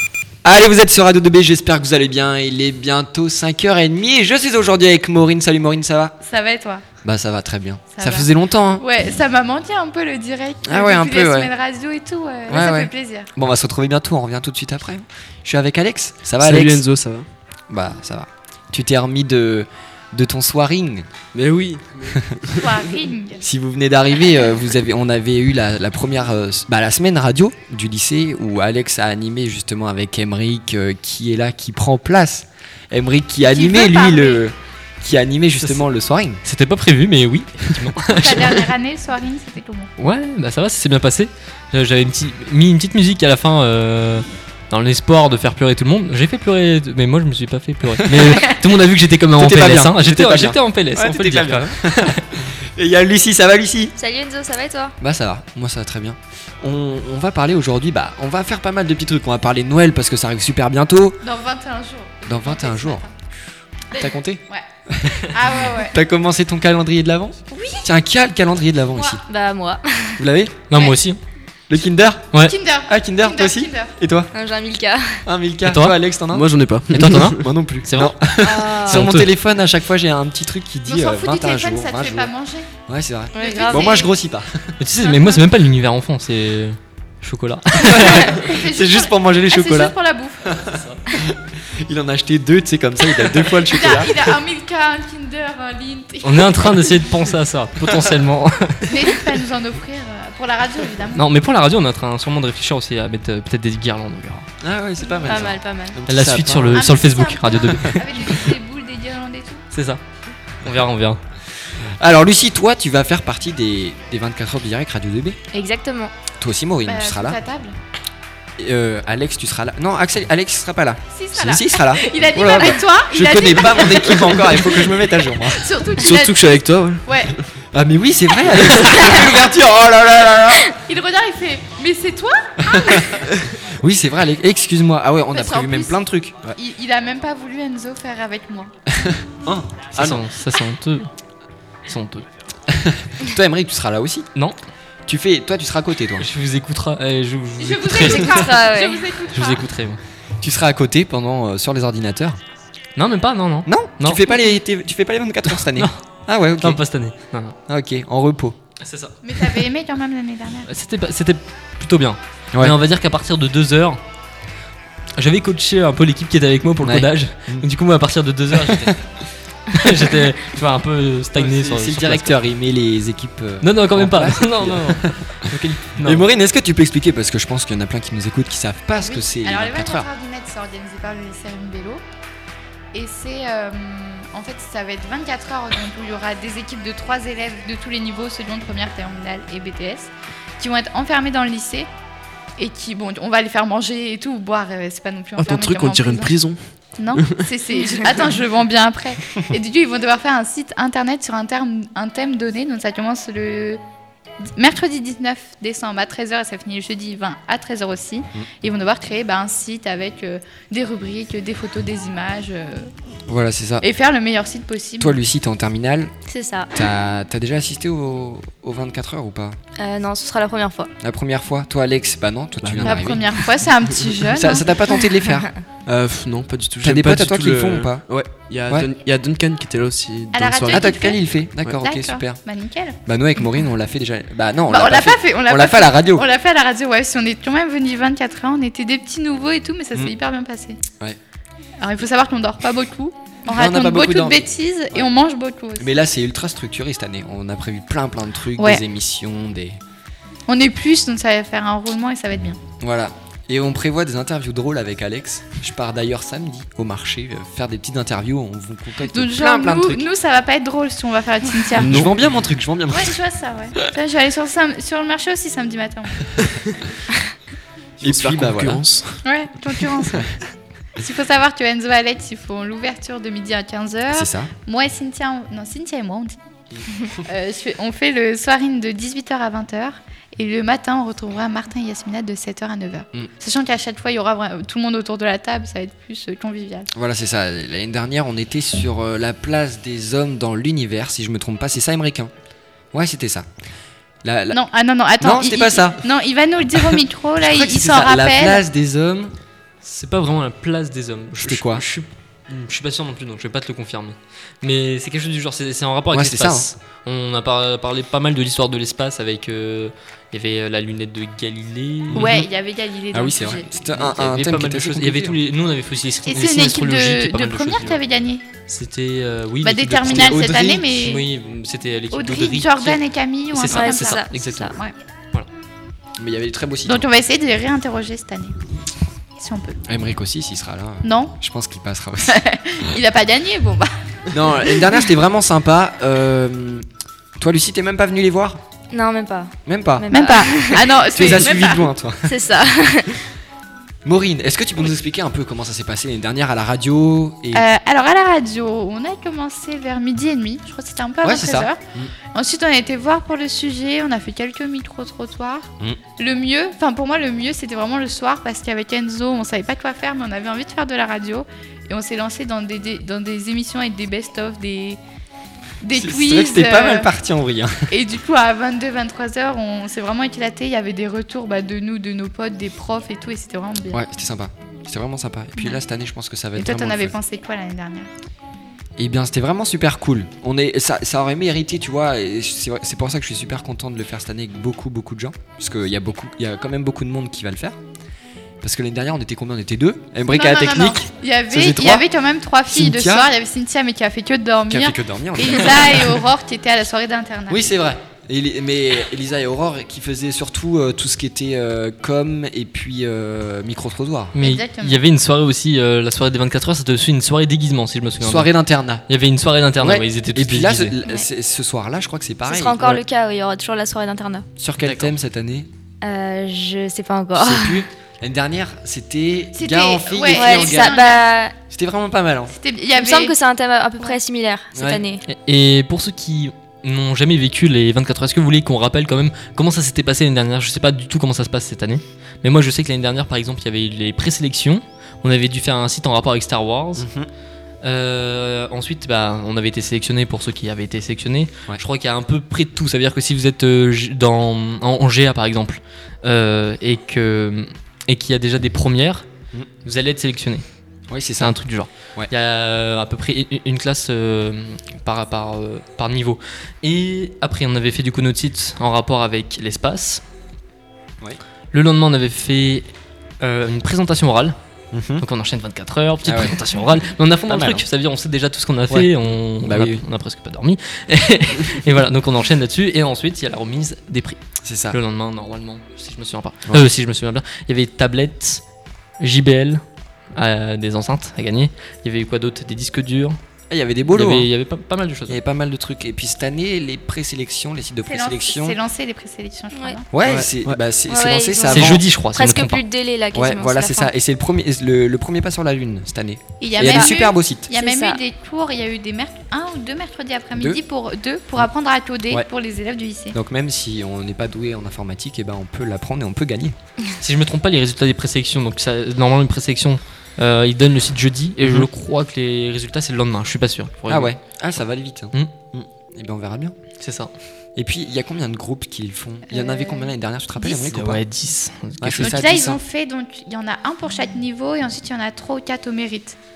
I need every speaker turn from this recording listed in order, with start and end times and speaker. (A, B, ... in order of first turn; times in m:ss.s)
0:00.4-0:06.2 A
0:06.2-0:06.8 B
0:07.0-0:08.8 A
0:07.9-0:13.3 B
0:10.6-0:11.5 A
0:12.5-0:16.8 A
0:16.4-0:17.3 C
0:17.7-0:21.1 A
0:21.3-0:22.8 C
0:22.6-0:23.4 B
0:23.4-0:36.4 A
0:33.4-0:34.4 B
0:36.4-0:38.6 D
0:38.1-0:39.9 B
0:40.0-0:52.2 D
0:48.1-0:48.4 A
0:49.4-0:53.9 A
0:54.0-0:55.0 E
0:55.0-1:01.2 A
1:01.2-1:03.1 B
1:02.2-1:03.0 A
1:03.9-1:04.6 B
1:04.0-1:09.2 A
1:05.3-1:06.0 B
1:09.3-1:10.2 E
1:10.2-1:10.6 A
1:10.7-1:11.2 D
1:11.7-1:12.4 A
1:12.4-1:13.9 B
1:12.9-1:14.3 A
1:14.3-1:15.2 E
1:15.3-1:16.5 A
1:15.6-1:16.0 D
1:16.3-1:17.4 C
1:16.9-1:19.3 D
1:17.3-1:22.3 A
1:18.4-1:19.1 E
1:20.9-1:22.7 B
1:22.9-1:24.8 A
1:23.3-1:24.0 E
1:23.4-1:24.1 B
1:24.8-1:28.5 D
1:25.0-1:25.4 B
1:27.8-1:34.3 A
1:28.4-1:30.6 B
1:30.8-1:31.0 D
1:33.6-1:36.9 B
1:36.2-1:39.2 D
1:38.9-1:41.2 B
1:41.2-1:44.4 D
1:44.6-1:46.9 A
1:45.2-1:46.0 E
1:46.1-1:48.3 D
1:46.7-1:49.6 B
1:49.7-1:50.0 D
1:50.6-1:51.2 D
1:51.8-1:55.4 A
1:55.5-1:56.1 E
1:56.4-1:57.4 A
1:56.8-1:57.8 B
1:58.6-2:05.7 A
2:01.1-2:04.9 B
2:05.5-2:06.4 B
2:06.0-2:07.3 C
2:07.1-2:07.3 B
2:07.7-2:10.7 A
2:10.8-2:13.2 B
2:12.7-2:13.2 A
2:13.8-2:16.5 A
2:15.3-2:16.0 B
2:16.6-2:18.7 B
2:19.0-2:20.2 A
2:20.0-2:21.1 D
2:21.9-2:22.2 D
2:22.7-2:24.3 A
2:25.1-2:26.3 A
2:26.2-2:28.5 D
2:27.6-2:29.6 B
2:28.0-2:29.0 E
2:29.3-2:30.0 D
2:30.4-2:32.4 A
2:33.0-2:34.2 D
2:33.7-2:36.8 A
2:35.5-2:36.0 D
2:36.6-2:37.6 D
2:37.7-2:38.6 A
2:38.8-2:39.6 D
2:39.2-2:40.7 B
2:40.7-2:44.0 D
2:45.2-2:49.0 D
2:46.8-2:47.7 A
2:48.6-2:48.9 A
2:49.7-2:52.4 D
2:51.4-3:00.1 A
2:53.6-2:56.2 D
2:59.0-3:02.0 B
3:02.9-3:11.9 B
3:12.6-3:16.4 B
3:15.4-3:17.4 C
3:17.0-3:23.8 B
3:24.4-3:32.9 B
3:33.3-3:33.8 A
3:33.8-3:35.2 B
3:35.0-3:36.1 A
3:36.3-3:36.7 E
3:36.7-3:39.6 A
3:39.8-3:40.9 E
3:41.0-3:43.3 A
3:42.6-3:43.4 C
3:42.8-3:44.7 B
3:44.3-3:45.5 A
3:45.9-3:51.0 C
3:46.8-3:48.1 A
3:50.3-3:53.0 B
3:50.7-3:52.4 A
3:53.1-3:56.3 A
3:54.7-4:00.8 B
4:01.8-4:05.9 B
4:03.5-4:05.1 A
4:05.8-4:09.8 A
4:08.6-4:08.8 B
4:10.5-4:12.6 B
4:12.8-4:20.1 A
4:19.1-4:22.0 B
4:21.8-4:22.2 C
4:21.8-4:23.2 A
4:22.9-4:26.4 B
4:28.0-4:29.2 C
4:28.0-4:28.8 A
4:29.2-4:30.4 B
4:31.0-4:36.4 B
4:34.1-4:34.5 A
4:37.3-4:46.9 B
4:46.9-4:52.3 A
4:52.9-4:53.5 A
4:54.2-4:54.6 A
4:54.5-4:58.6 B
4:55.2-4:56.0 A
4:57.4-4:59.4 A
4:59.8-5:12.4 D
5:01.4-5:01.8 A
5:06.1-5:06.7 A
5:12.1-5:12.5 A
5:12.1-5:13.7 B
5:13.1-5:15.4 A
5:13.9-5:18.0 D
5:16.3-5:18.4 B
5:18.7-5:23.0 D
5:19.6-5:21.2 B
5:20.0-5:20.8 A
5:22.1-5:24.9 B
5:23.5-5:24.7 D
5:23.7-5:24.7 E
5:26.2-5:27.1 A
5:26.9-5:28.6 B
5:29.4-5:29.8 B
5:29.9-5:32.4 A
5:31.0-5:31.3 B
5:32.3-5:33.9 B
5:34.3-5:36.9 A
5:37.4-5:38.6 A
5:38.9-5:41.5 E
5:39.7-5:40.1 A
5:40.1-5:41.9 B
5:41.1-5:42.4 A
5:42.2-5:43.3 E
5:44.0-5:47.7 A
5:47.5-5:51.8 B
5:51.2-5:52.1 A
5:52.3-6:05.0 B
6:05.8-6:07.1 B
6:05.9-6:07.9 A
6:07.9-6:14.0 B
6:13.9-6:17.1 A
6:16.6-6:18.1 B
6:19.0-6:27.8 A
6:28.6-6:32.1 A
6:30.3-6:37.6 B
6:32.7-6:33.3 A
6:34.7-6:36.2 A
6:37.5-6:44.4 A
6:44.4-6:48.5 D
6:44.4-6:45.0 B
6:48.2-6:49.0 A
6:49.1-6:50.9 D
6:49.8-6:53.0 A
6:52.5-6:54.5 E
6:54.6-6:55.7 A
6:54.8-6:55.1 D
6:56.0-6:57.9 E
6:57.4-7:01.0 A
6:59.6-7:01.2 B
7:00.3-7:01.5 E
7:01.7-7:02.5 A
7:02.5-7:03.3 B
7:02.9-7:05.2 E
7:04.8-7:05.0 A
7:05.3-7:17.1 D
7:17.0-7:17.3 A
7:17.8-7:29.3 D
7:29.8-7:30.6 D
7:31.1-7:31.6 A
7:31.4-7:40.2 D
7:41.7-7:42.9 D
7:43.4-7:44.6 D
7:44.9-7:45.2 A
7:45.2-7:54.4 D
7:46.2-7:46.6 A
7:47.5-7:47.8 A
7:49.6-7:50.0 A
7:54.6-7:55.0 A
7:54.9-7:58.6 D
7:59.2-7:59.8 D
8:00.4-8:03.4 D
8:03.7-8:04.5 A
8:04.1-8:05.4 D
8:05.3-8:08.8 A
8:08.1-8:10.1 B
8:10.1-8:12.0 A
8:10.2-8:10.7 C
8:11.1-8:14.1 E
8:11.7-8:12.8 D
8:13.3-8:17.7 A
8:16.6-8:23.4 B
8:16.8-8:17.1 E
8:17.7-8:18.2 E
8:23.3-8:26.8 A
8:27.2-8:34.5 D
8:34.1-8:36.8 A
8:37.0-8:37.3 D
8:37.8-8:41.2 A
8:39.5-8:40.1 B
8:40.8-8:42.5 D
8:42.0-8:42.8 A
8:42.2-8:46.4 B